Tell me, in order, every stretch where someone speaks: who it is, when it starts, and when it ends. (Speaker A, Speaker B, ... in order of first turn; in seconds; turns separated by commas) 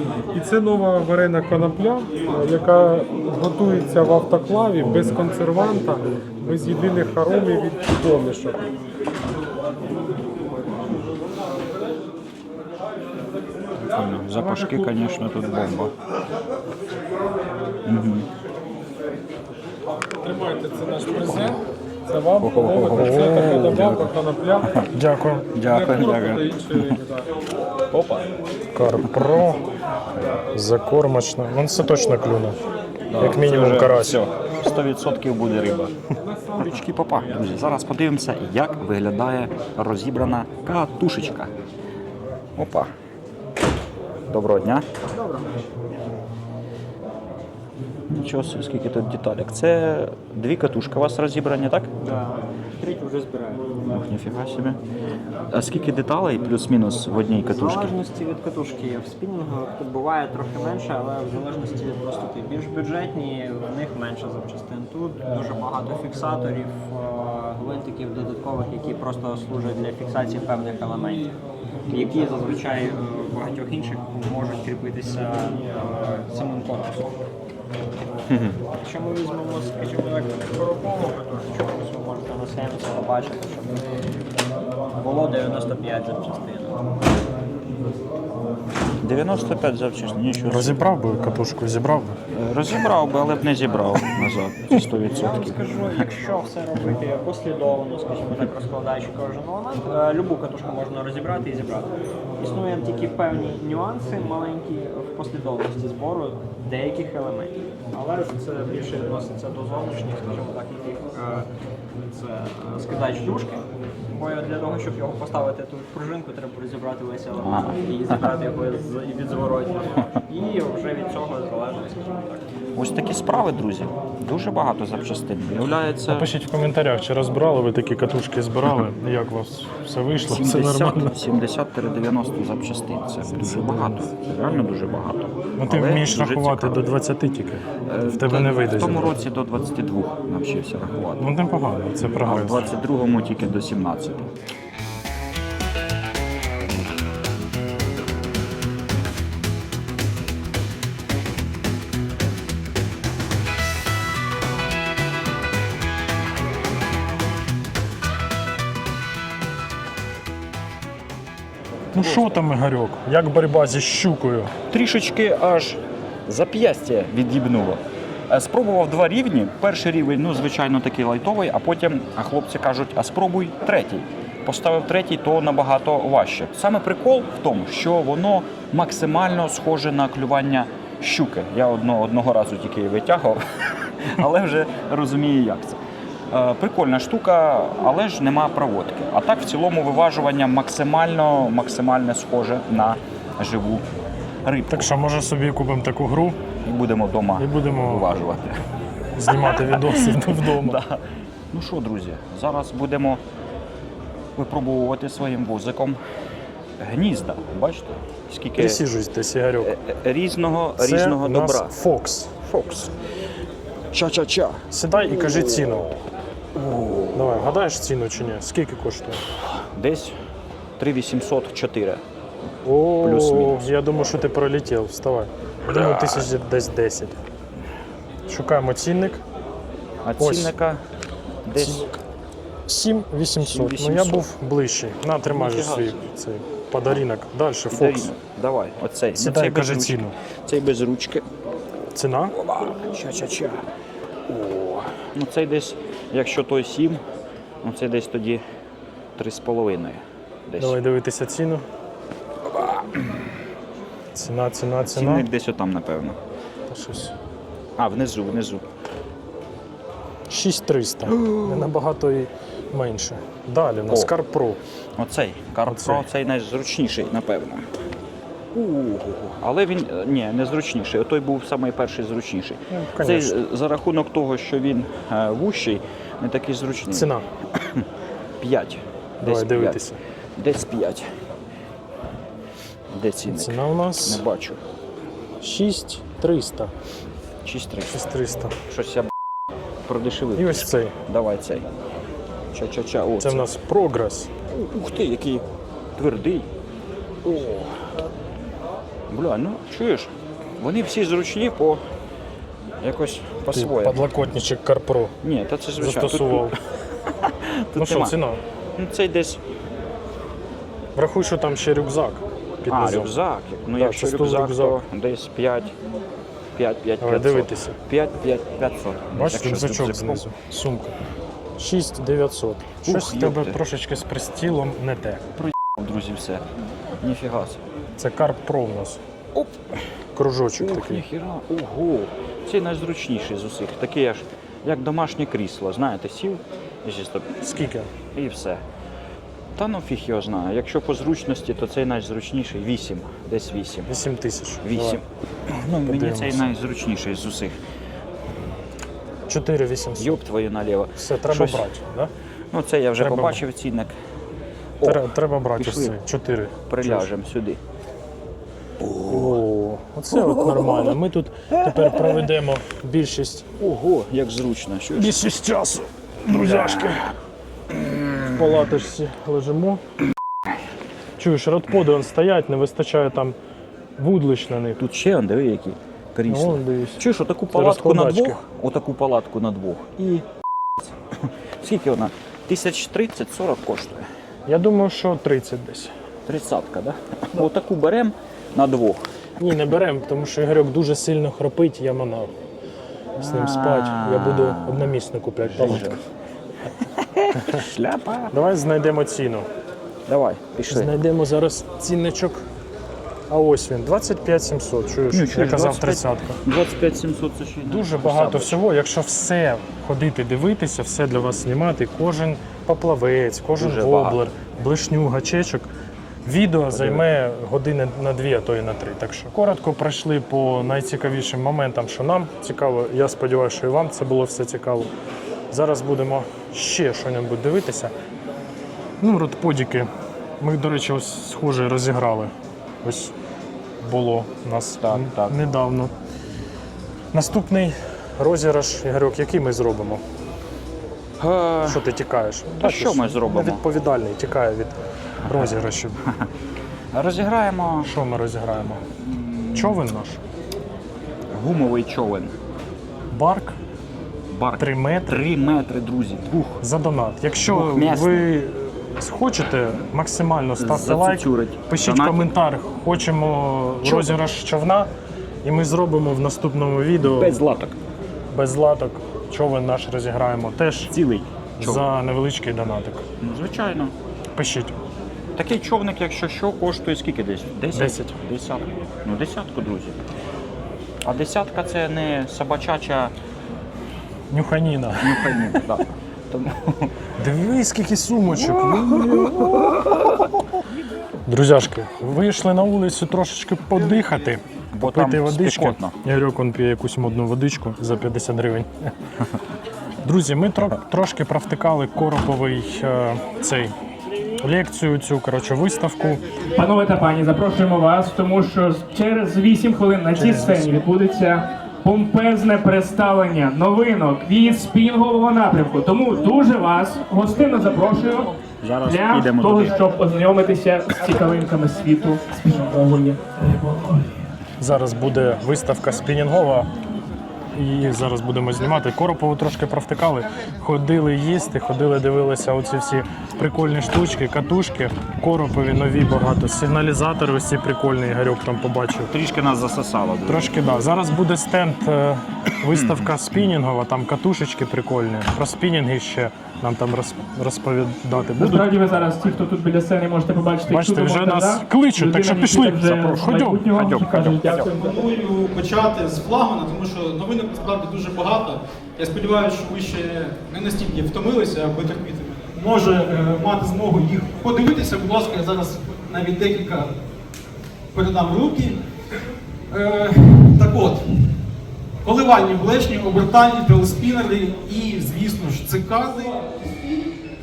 Speaker A: 0.3-8.7, Speaker B: 13.8-15.9, Speaker A: 14.3-14.9, Speaker B: 17.9-18.3, Speaker A: 20.2-24.8, Speaker B: 22.4-24.8, Speaker C: 22.9-23.8, Speaker C: 24.9-25.5, Speaker B: 25.5-27.0, Speaker A: 25.6-27.3, Speaker B: 27.9-28.3, Speaker C: 28.7-29.6, Speaker B: 29.0-29.4, Speaker C: 30.5-32.6, Speaker B: 33.1-35.9, Speaker C: 33.2-34.2, Speaker B: 36.5-41.5, Speaker B: 42.5-42.9, Speaker B: 44.3-44.9, Speaker D: 45.1-45.7, Speaker B: 48.1-52.1, Speaker D: 52.0-53.7, Speaker B: 53.9-54.8, Speaker B: 55.5-58.0, Speaker D: 57.5-71.3, Speaker D: 71.9-77.2, Speaker B: 78.3-78.6, Speaker D: 78.8-83.8, Speaker D: 84.9-87.0, Speaker B: 89.0-90.8, Speaker C: 90.4-92.2, Speaker B: 92.3-96.1, Speaker D: 95.1-111.5, Speaker D: 112.1-122.4, Speaker B: 117.4-117.8, Speaker B: 122.7-126.3, Speaker C: 126.1-131.2, Speaker B: 130.2-136.9, Speaker C: 133.2-134.1, Speaker C: 135.6-139.2, Speaker B: 137.9-141.3, Speaker C: 141.2-142.7, Speaker B: 142.2-144.3, Speaker C: 161.9-164.5, Speaker B: 161.9-162.4, Speaker B: 164.7-193.8, Speaker B: 194.4-194.9, Speaker C: 194.7-196.4, Speaker B: 196.6-198.6, Speaker C: 197.4-198.1, Speaker C: 199.1-200.8, Speaker B: 199.2-203.2, Speaker B: 204.3-206.0, Speaker B: 206.8-208.8, Speaker C: 208.6-209.7, Speaker B: 209.6-211.8, Speaker C: 210.8-212.3, Speaker B: 212.4-212.9, Speaker B: 213.9-216.0, Speaker C: 214.7-215.9, Speaker B: 216.5-217.5, Speaker C: 217.1-219.2, Speaker B: 219.6-220.2, Speaker B: 220.8-222.0, Speaker C: 222.6-227.2, Speaker B: 223.0-223.7, Speaker B: 225.6-226.3, Speaker C: 228.3-229.2, Speaker B: 230.0-230.8, Speaker C: 230.2-230.5, Speaker B: 231.4-231.9, Speaker C: 231.6-232.0, Speaker C: 232.7-238.1, Speaker B: 233.4-234.3, Speaker B: 235.2-236.1, Speaker B: 237.7-241.3, Speaker C: 239.1-240.1, Speaker C: 241.9-242.3, Speaker B: 242.3-243.7, Speaker B: 244.3-247.0, Speaker B: 247.6-248.4, Speaker B: 249.2-250.8, Speaker C: 250.6-251.6, Speaker B: 252.4-253.2, Speaker C: 254.1-255.3, Speaker B: 254.9-256.2, Speaker C: 256.7-257.1, Speaker B: 257.8-258.6, Speaker C: 260.3-264.6, Speaker B: 261.0-261.7, Speaker B: 265.0-267.7, Speaker C: 265.6-266.1, Speaker B: 268.5-277.9, Speaker C: 272.7-273.4, Speaker C: 276.9-277.2, Speaker B: 278.4-281.1, Speaker C: 279.2-280.0, Speaker B: 282.9-284.6, Speaker C: 283.3-284.2, Speaker C: 285.4-286.7, Speaker B: 287.4-288.0, Speaker C: 287.9-288.6, Speaker B: 288.6-289.1, Speaker B: 289.8-291.7, Speaker C: 290.3-290.9, Speaker B: 292.5-293.5, Speaker C: 293.2-294.3, Speaker B: 294.5-296.5, Speaker B: 297.2-297.8, Speaker B: 299.1-301.8, Speaker B: 302.8-304.1, Speaker C: 303.5-305.1, Speaker B: 305.2-308.2, Speaker C: 305.8-306.6, Speaker C: 307.7-308.4, Speaker B: 308.8-309.4, Speaker C: 310.9-313.1, Speaker B: 312.7-315.7, Speaker C: 313.8-314.8, Speaker B: 316.5-320.2, Speaker C: 317.0-317.8, Speaker C: 319.1-320.9, Speaker C: 321.6-325.3, Speaker B: 322.8-323.6, Speaker B: 325.4-326.5, Speaker B: 327.0-327.6, Speaker C: 328.0-329.0, Speaker B: 329.3-329.8, Speaker C: 330.1-331.0, Speaker B: 330.6-337.4, Speaker C: 337.4-337.9, Speaker B: 338.1-338.6, Speaker B: 339.5-343.9, Speaker C: 343.9-345.0, Speaker B: 344.6-347.6, Speaker C: 345.9-346.5, Speaker C: 349.3-350.2, Speaker B: 350.0-351.7, Speaker C: 350.9-352.1, Speaker B: 352.5-353.9, Speaker C: 353.0-353.4, Speaker B: 354.8-356.0, Speaker C: 354.8-357.1, Speaker B: 356.7-357.6, Speaker B: 358.8-359.4, Speaker C: 359.1-363.5, Speaker B: 360.1-360.9, Speaker B: 361.5-362.3, Speaker B: 363.6-365.2, Speaker C: 364.9-367.1, Speaker B: 366.3-367.0, Speaker B: 367.7-368.6, Speaker C: 368.2-369.8, Speaker C: 371.2-373.4, Speaker C: 374.0-374.8, Speaker B: 374.8-380.2, Speaker C: 376.3-378.4, Speaker B: 380.8-384.1, Speaker C: 384.5-385.9, Speaker B: 386.2-389.0, Speaker C: 389.4-392.3, Speaker B: 393.1-394.9, Speaker C: 393.2-395.9, Speaker B: 395.4-396.0, Speaker B: 396.8-398.3, Speaker C: 397.3-397.7, Speaker C: 398.3-399.5, Speaker B: 400.1-400.9, Speaker C: 400.7-402.4, Speaker C: 403.3-406.4, Speaker B: 405.1-408.7, Speaker C: 407.7-415.7, Speaker B: 413.5-414.2, Speaker C: 416.2-424.9, Speaker B: 416.7-417.1, Speaker C: 425.5-427.9, Speaker C: 429.0-433.1, Speaker C: 433.8-435.9, Speaker B: 434.8-435.4, Speaker C: 437.1-440.0, Speaker B: 441.2-441.9, Speaker C: 441.6-446.0, Speaker B: 442.6-443.6, Speaker B: 445.2-446.3, Speaker B: 446.9-447.9, Speaker C: 447.8-448.9, Speaker B: 448.9-449.9, Speaker C: 449.5-450.2, Speaker B: 451.3-452.3, Speaker C: 453.1-453.5, Speaker B: 454.3-456.6, Speaker C: 454.6-455.2, Speaker C: 456.6-464.9, Speaker B: 457.4-458.3, Speaker B: 460.6-462.3, Speaker B: 463.8-464.2, Speaker C: 465.4-467.4, Speaker B: 467.0-467.8, Speaker C: 468.3-470.9, Speaker B: 470.9-471.9, Speaker C: 471.6-473.1, Speaker B: 473.2-473.9, Speaker C: 474.4-474.7, Speaker B: 475.4-480.0, Speaker C: 477.7-478.2, Speaker B: 481.0-483.1, Speaker C: 484.3-485.4, Speaker B: 484.9-487.0, Speaker C: 487.2-489.8, Speaker B: 488.3-491.0, Speaker C: 491.2-498.9, Speaker B: 494.7-495.9, Speaker C: 500.0-503.7, Speaker C: 504.4-506.2, Speaker E: 506.5-524.1, Speaker C: 510.1-510.8, Speaker B: 518.6-519.8, Speaker C: 524.6-526.7, Speaker C: 527.5-539.1, Speaker B: 539.1-540.5, Speaker C: 540.3-548.7, Speaker B: 542.6-543.5, Speaker E: 548.4-555.0, Speaker C: 550.7-553.7, Speaker B: 553.7-554.7, Speaker F: 554.5-566.9, Speaker F: 567.9-571.3, Speaker F: 572.0-577.2